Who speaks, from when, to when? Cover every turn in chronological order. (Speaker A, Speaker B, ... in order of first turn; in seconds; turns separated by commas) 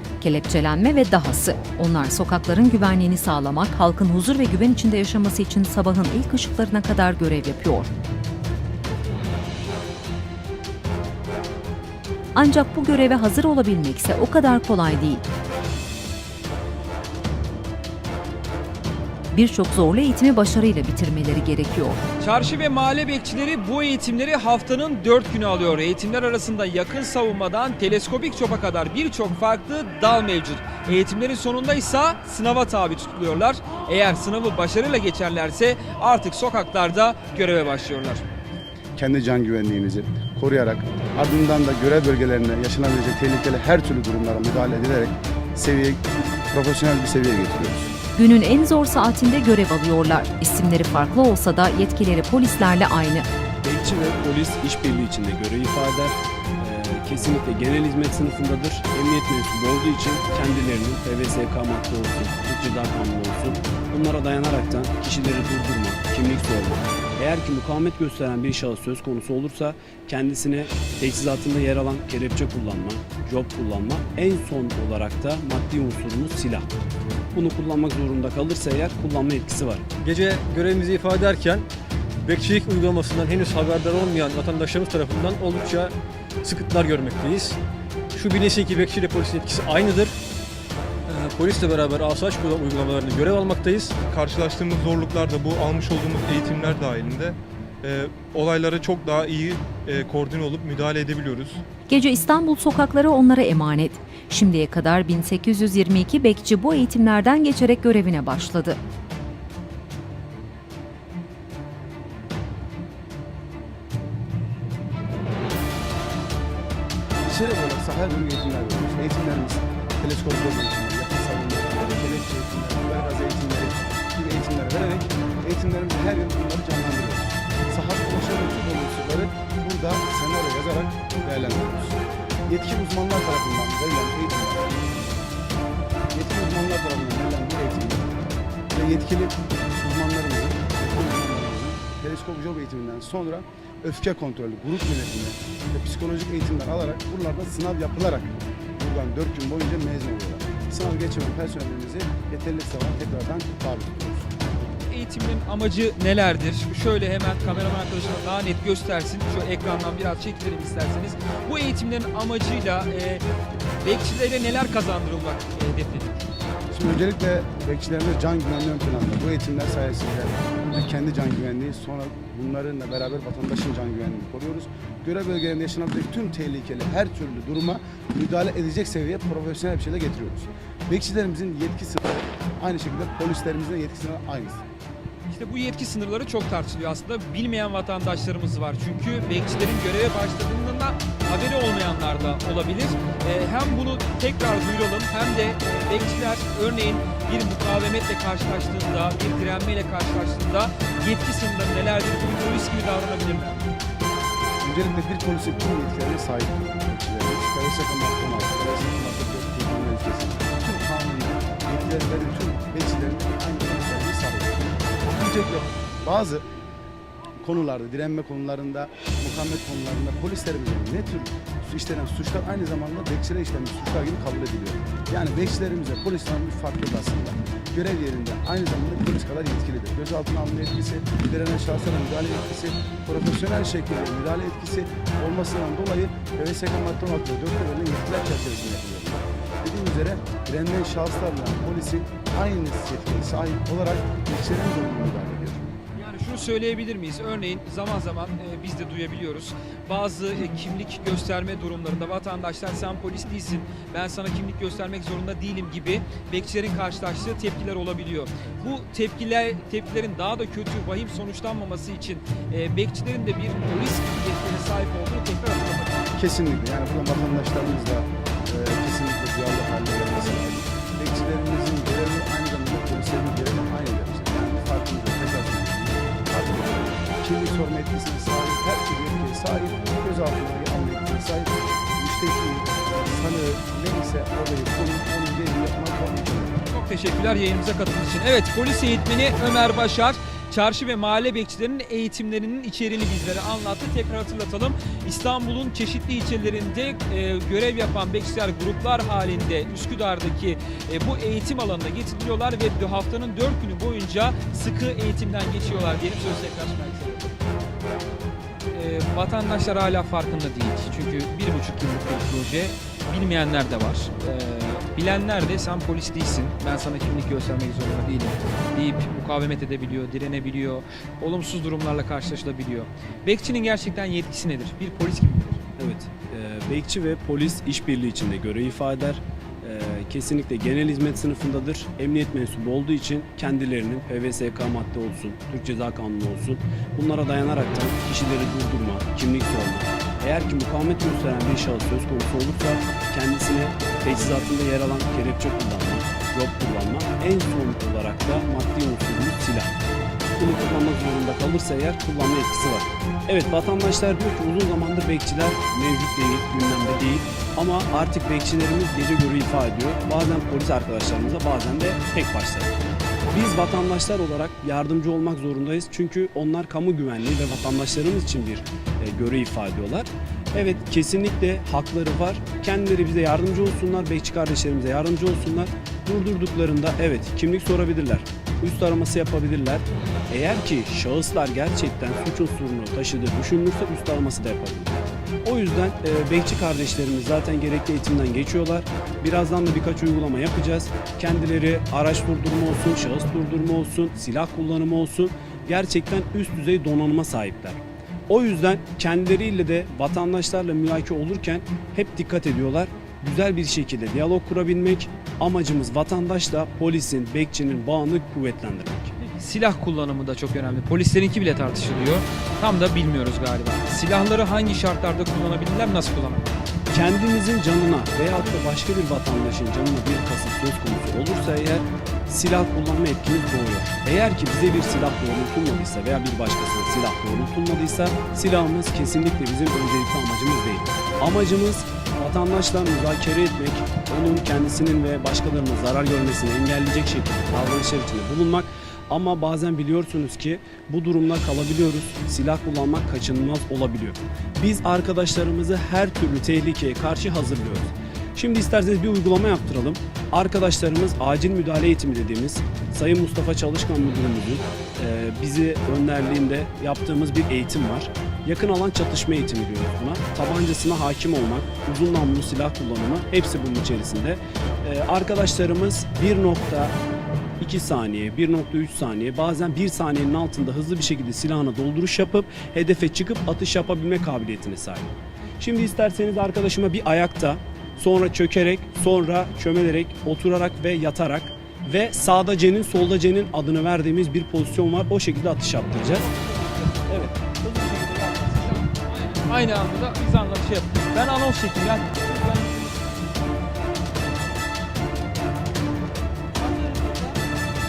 Speaker A: 0.2-7.9, Speaker A: 12.3-15.2, Speaker A: 19.3-22.0, Speaker B: 22.2-38.2, Speaker C: 39.0-47.9, Speaker A: 48.1-53.2, Speaker D: 53.6-76.7, Speaker D: 77.3-79.8, Speaker E: 80.0-81.7, Speaker E: 82.2-87.6, Speaker E: 88.1-90.2, Speaker E: 91.1-93.9, Speaker F: 94.0-101.6, Speaker A: 101.9-108.8, Speaker C: 117.2-134.9, Speaker C: 136.1-138.0, Speaker C: 138.7-154.3, Speaker B: 154.8-163.2, Speaker B: 163.8-166.3, Speaker C: 166.7-184.6, Speaker B: 185.3-203.7, Speaker C: 204.6-216.4, Speaker C: 217.4-245.8, Speaker B: 245.9-266.0, Speaker C: 266.1-286.6, Speaker B: 286.6-307.3, Speaker B: 308.7-325.6, Speaker D: 325.8-349.8, Speaker D: 350.4-362.7, Speaker D: 363.3-409.1, Speaker B: 409.3-416.7, Speaker D: 416.9-466.9, Speaker D: 467.6-486.3, Speaker B: 486.1-493.0, Speaker B: 496.6-497.4